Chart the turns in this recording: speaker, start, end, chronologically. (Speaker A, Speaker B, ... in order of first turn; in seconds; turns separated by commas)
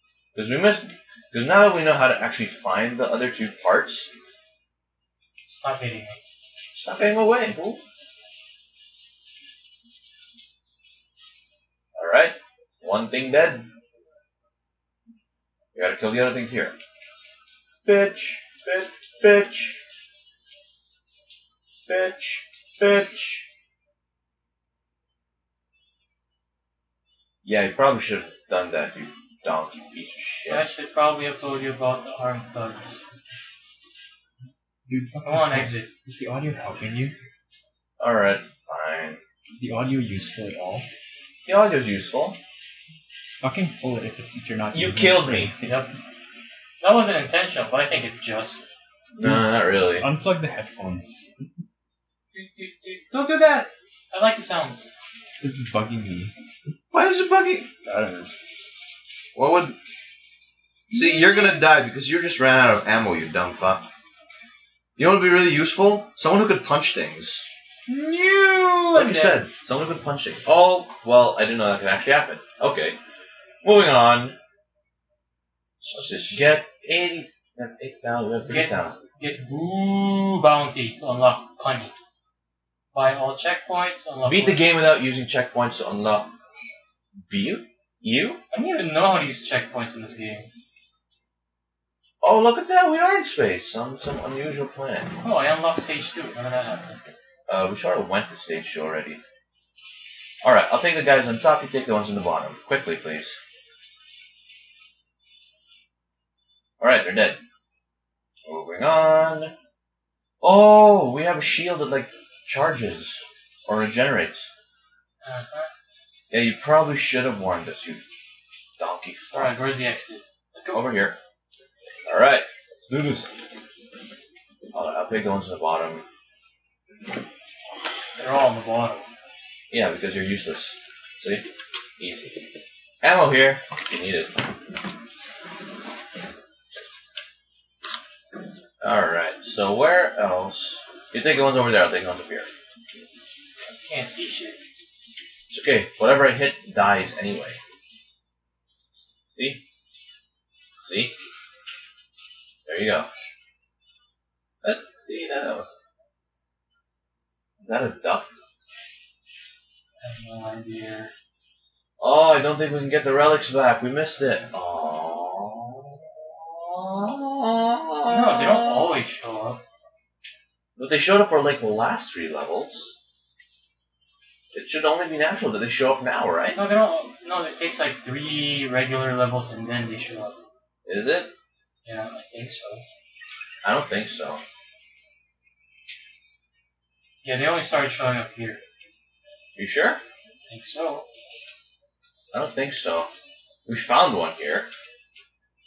Speaker A: 0.3-4.1, Speaker B: 5.5-6.2, Speaker A: 6.7-7.8, Speaker A: 11.9-13.7, Speaker A: 15.7-16.8, Speaker A: 17.8-19.8, Speaker A: 21.9-23.4, Speaker A: 27.4-30.7, Speaker B: 30.5-33.0, Speaker C: 34.9-37.1, Speaker B: 35.2-35.9, Speaker A: 38.0-39.2, Speaker C: 39.5-40.9, Speaker A: 41.5-42.4, Speaker C: 43.4-45.8, Speaker A: 44.7-45.5, Speaker B: 45.6-45.9, Speaker B: 46.8-48.6, Speaker A: 49.2-50.1, Speaker C: 50.0-51.3, Speaker B: 52.3-54.9, Speaker C: 55.4-56.3, Speaker A: 56.9-57.7, Speaker C: 57.8-58.3, Speaker A: 59.3-59.8, Speaker B: 60.9-61.6, Speaker A: 60.9-63.8, Speaker A: 65.0-67.4, Speaker B: 67.9-69.4, Speaker A: 68.9-73.0, Speaker A: 73.6-74.3, Speaker A: 75.9-79.0, Speaker B: 78.4-81.9, Speaker B: 82.9-84.7, Speaker A: 84.2-86.3, Speaker A: 87.3-88.4, Speaker B: 88.5-90.5, Speaker A: 92.2-95.1, Speaker B: 95.2-97.0, Speaker A: 97.5-99.2, Speaker A: 100.4-103.4, Speaker A: 106.8-107.4, Speaker A: 108.5-109.5, Speaker A: 110.4-114.5, Speaker B: 115.2-115.7, Speaker A: 116.3-118.0, Speaker A: 118.8-119.7, Speaker B: 119.3-120.8, Speaker A: 120.7-121.2, Speaker A: 122.1-123.3, Speaker A: 124.7-126.0, Speaker B: 128.2-129.1, Speaker A: 129.7-132.4, Speaker A: 133.0-134.3, Speaker A: 138.8-142.5, Speaker B: 143.8-144.6, Speaker A: 145.5-147.6, Speaker A: 149.2-149.6, Speaker A: 150.8-151.1, Speaker A: 152.7-153.1, Speaker A: 154.6-155.7, Speaker A: 157.6-158.3, Speaker B: 160.0-161.1, Speaker A: 162.0-169.0, Speaker B: 168.1-169.6, Speaker A: 170.8-172.9, Speaker A: 174.5-176.6, Speaker B: 176.5-180.4, Speaker A: 180.8-181.3, Speaker B: 181.8-182.8, Speaker A: 183.6-184.4, Speaker B: 187.2-188.6, Speaker A: 189.6-190.0, Speaker B: 190.5-191.1, Speaker A: 192.3-193.1, Speaker A: 193.7-194.7